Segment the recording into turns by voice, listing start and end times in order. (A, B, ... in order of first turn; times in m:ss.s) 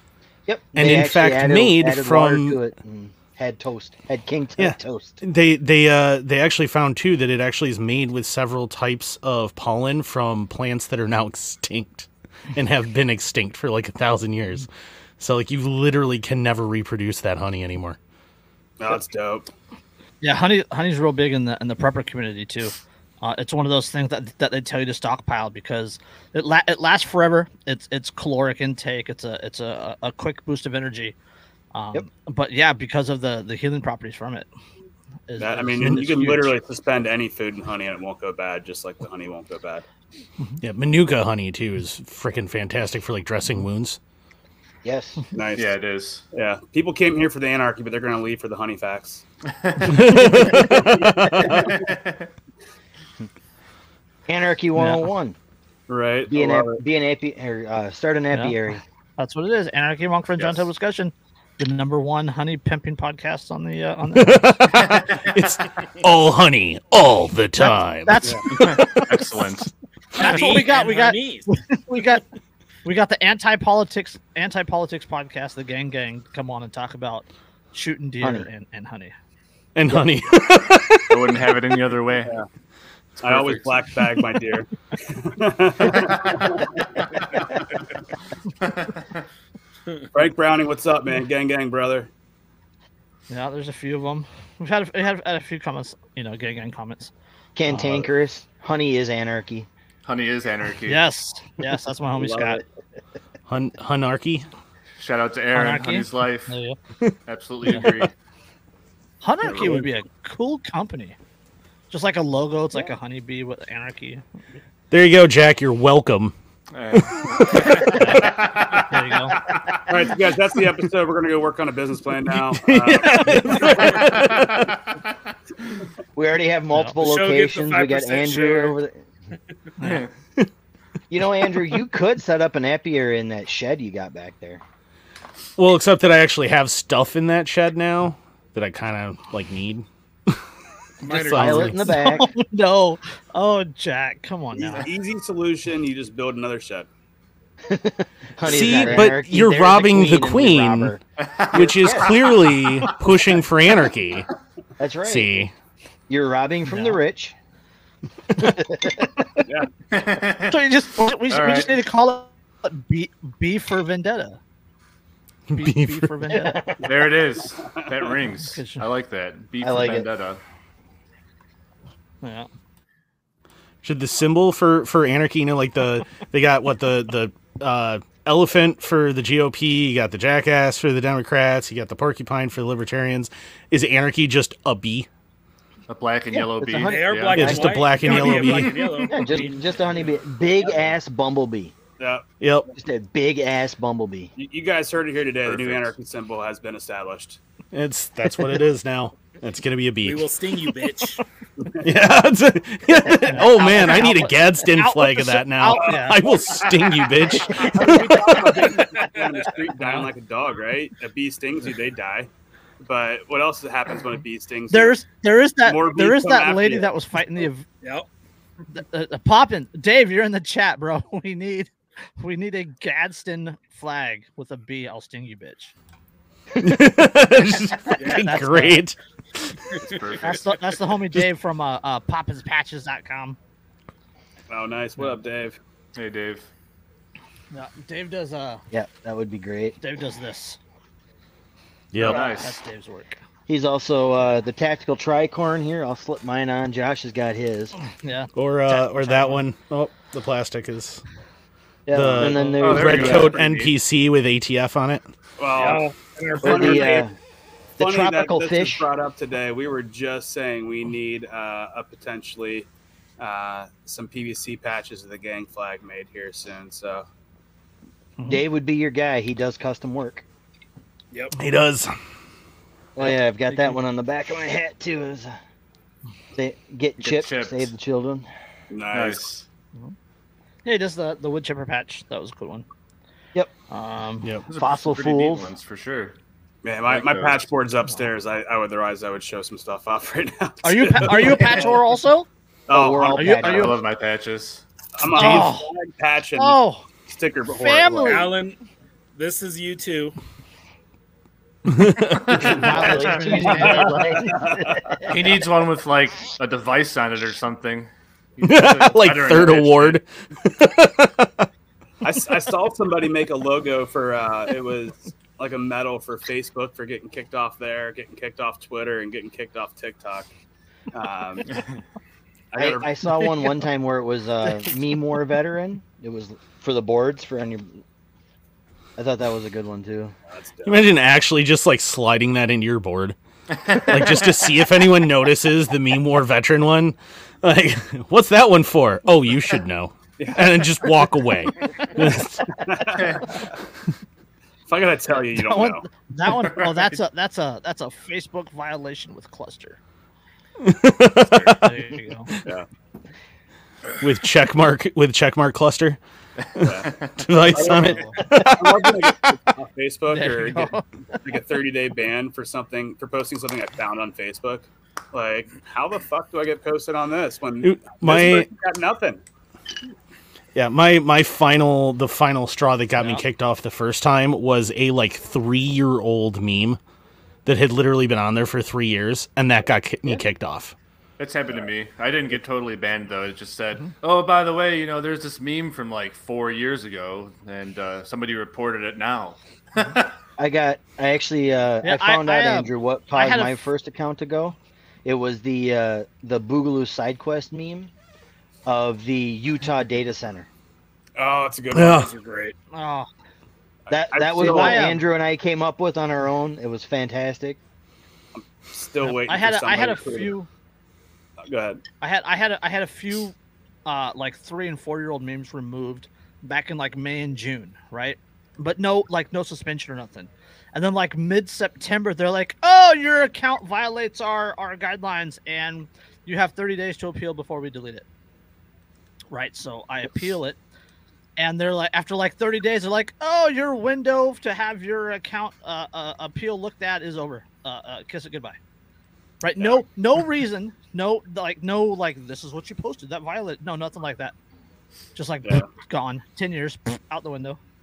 0:00.5-0:05.2 A
0:00.8-0:02.6 B
0:04.6-0:14.7 B
0:15.2-0:18.0 B
0:18.8-0:19.5 C
0:20.2-0:31.2 D
0:31.7-0:34.5 D
0:35.3-0:36.5 D
0:35.4-0:39.8 C
0:35.8-0:36.4 B
0:40.6-0:44.0 B
0:44.8-0:45.2 A
0:45.4-0:45.8 C
0:45.5-0:46.2 E
0:46.3-0:49.2 C
0:49.6-0:50.3 E
0:49.8-0:51.5 B
0:50.2-0:50.5 D
0:51.5-0:52.3 E
0:54.3-0:55.4 A
0:54.8-0:55.1 D
0:55.9-0:56.8 C
0:56.3-0:58.8 A
0:59.2-1:04.8 D
1:00.4-1:00.7 E
1:04.2-1:09.3 B
1:04.9-1:05.1 E
1:07.6-1:08.4 D
1:08.5-1:09.7 E
1:10.2-1:12.2 D
1:10.2-1:11.5 F
1:10.2-1:10.6 E
1:12.8-1:19.1 D
1:18.2-1:18.5 A
1:19.8-1:21.5 B
1:21.1-1:22.3 E
1:23.2-1:23.7 E
1:23.2-1:26.6 C
1:25.9-1:26.7 E
1:28.6-1:29.1 E
1:30.1-1:32.1 C
1:33.3-1:37.1 D
1:37.6-1:39.7 A
1:40.0-1:41.1 E
1:40.9-1:42.6 D
1:42.2-1:42.6 A
1:43.5-1:44.5 B
1:45.0-1:46.6 E
1:45.5-1:46.8 D
1:47.3-1:48.1 E
1:49.2-1:51.2 D
1:49.4-1:49.8 E
1:51.9-1:54.4 D
1:54.9-1:56.3 B
1:56.7-1:59.2 E
1:57.4-1:57.7 B
1:57.6-1:57.9 F
1:57.9-1:59.4 D
1:59.3-2:00.1 A
1:59.9-2:03.8 C
2:02.3-2:04.7 B
2:03.1-2:04.2 F
2:04.0-2:05.0 E
2:06.2-2:09.0 A
2:07.0-2:08.8 F
2:09.8-2:10.1 E
2:11.1-2:14.6 A
2:15.6-2:20.4 B
2:21.0-2:21.9 F
2:21.0-2:22.3 A
2:21.0-2:21.9 B
2:21.9-2:24.9 D
2:24.6-2:24.8 E
2:24.7-2:26.9 C
2:27.7-2:31.0 A
2:28.4-2:31.0 B
2:31.2-2:32.9 E
2:31.5-2:32.1 A
2:31.5-2:34.3 B
2:34.8-2:35.3 A
2:35.0-2:35.5 B
2:36.1-2:37.4 A
2:36.7-2:37.0 D
2:38.4-2:39.5 A
2:39.9-2:40.6 E
2:40.5-2:44.4 D
2:41.3-2:41.7 E
2:45.5-2:46.1 B
2:45.5-2:46.6 D
2:46.3-2:46.8 A
2:46.8-2:50.4 E
2:48.5-2:48.9 D
2:49.6-2:50.1 A
2:52.2-2:52.5 D
2:53.8-3:05.1 B
3:05.9-3:07.5 E
3:06.4-3:11.7 A
3:06.8-3:10.9 F
3:07.3-3:08.7 B
3:08.1-3:08.8 E
3:12.0-3:12.2 C
3:12.4-3:12.7 B
3:12.7-3:14.3 A
3:14.4-3:17.4 C
3:15.4-3:15.9 E
3:17.7-3:20.3 B
3:20.0-3:21.2 F
3:21.6-3:21.9 C
3:21.8-3:28.8 B
3:23.2-3:26.3 D
3:27.6-3:32.3 C
3:28.9-3:29.5 F
3:32.8-3:35.0 C
3:34.7-3:37.7 D
3:35.6-3:36.9 C
3:37.8-3:38.1 F
3:38.7-3:45.7 D
3:46.6-3:49.5 B
3:48.0-3:48.8 D
3:49.8-3:50.8 E
3:50.2-3:53.4 D
3:54.5-3:55.6 C
3:56.0-3:56.5 E
3:57.5-3:58.6 D
3:58.7-3:59.8 A
3:59.8-4:00.6 D
4:01.9-4:02.3 B
4:02.0-4:02.6 E
4:02.1-4:02.4 A
4:02.1-4:03.2 D
4:03.5-4:07.8 A
4:08.0-4:09.4 D
4:08.4-4:11.0 B
4:11.9-4:13.4 A
4:11.9-4:15.1 B
4:12.6-4:13.7 E
4:15.4-4:17.1 C
4:15.5-4:17.1 F
4:16.4-4:17.1 A
4:17.8-4:18.9 A
4:17.8-4:27.0 C
4:28.2-4:28.4 D
4:28.3-4:30.3 A
4:31.1-4:31.4 F
4:31.4-4:31.9 B
4:33.0-4:35.3 A
4:33.0-4:33.8 D
4:36.3-4:38.3 A
4:37.0-4:37.7 E
4:38.7-4:39.3 C
4:38.9-4:39.5 E
4:40.6-4:42.7 D
4:43.7-4:44.3 D
4:44.5-4:46.2 E
4:44.6-4:45.5 A
4:46.6-4:51.8 C
4:46.9-4:47.5 E
4:50.6-4:52.3 D
4:52.7-4:53.5 C
4:52.7-4:54.6 E
4:52.7-4:53.8 A
4:53.1-4:53.8 D
4:55.0-4:58.3 C
4:55.1-4:55.7 D
4:56.4-4:56.9 D
4:57.5-4:58.3 D
4:58.0-4:58.6 F
4:59.2-5:00.2 F
5:01.7-5:02.6 B
5:02.1-5:04.3 E
5:02.4-5:04.0 D
5:02.5-5:05.3 A
5:04.2-5:04.8 C
5:05.1-5:10.0 E
5:08.4-5:11.5 B
5:12.0-5:20.3 C
5:20.9-5:21.6 C
5:22.5-5:22.9 C
5:22.6-5:27.8 A
5:29.0-5:30.2 A
5:30.3-5:30.9 C
5:30.6-5:33.2 B
5:33.6-5:34.4 E
5:33.8-5:42.6 B
5:40.2-5:40.9 C
5:42.1-5:43.2 C
5:43.0-5:43.2 E
5:44.7-5:45.8 C
5:45.3-5:49.8 D
5:46.3-5:47.0 E
5:50.6-5:52.3 B
5:51.5-5:52.3 D
5:54.0-5:56.0 B
5:56.6-5:59.3 B
5:56.6-5:56.9 C
5:57.5-6:09.2 C
6:00.1-6:00.8 D
6:07.6-6:08.5 B
6:10.6-6:16.8 B
6:17.5-6:20.8 B
6:21.2-6:30.2 E
6:30.4-6:37.9 A
6:31.8-6:33.5 D
6:38.7-6:40.5 A
6:41.2-6:42.4 C
6:41.7-6:42.1 B
6:42.0-6:42.5 F
6:42.7-6:43.1 D
6:43.9-6:45.0 C
6:43.9-6:47.6 A
6:44.4-6:45.0 D
6:48.7-6:50.3 C
6:49.0-6:50.5 D
6:51.4-6:51.8 C
6:52.0-6:53.4 D
6:53.9-7:08.0 D
7:09.3-7:10.6 D
7:11.4-7:18.6 D
7:19.4-7:24.3 D
7:25.2-7:27.6 D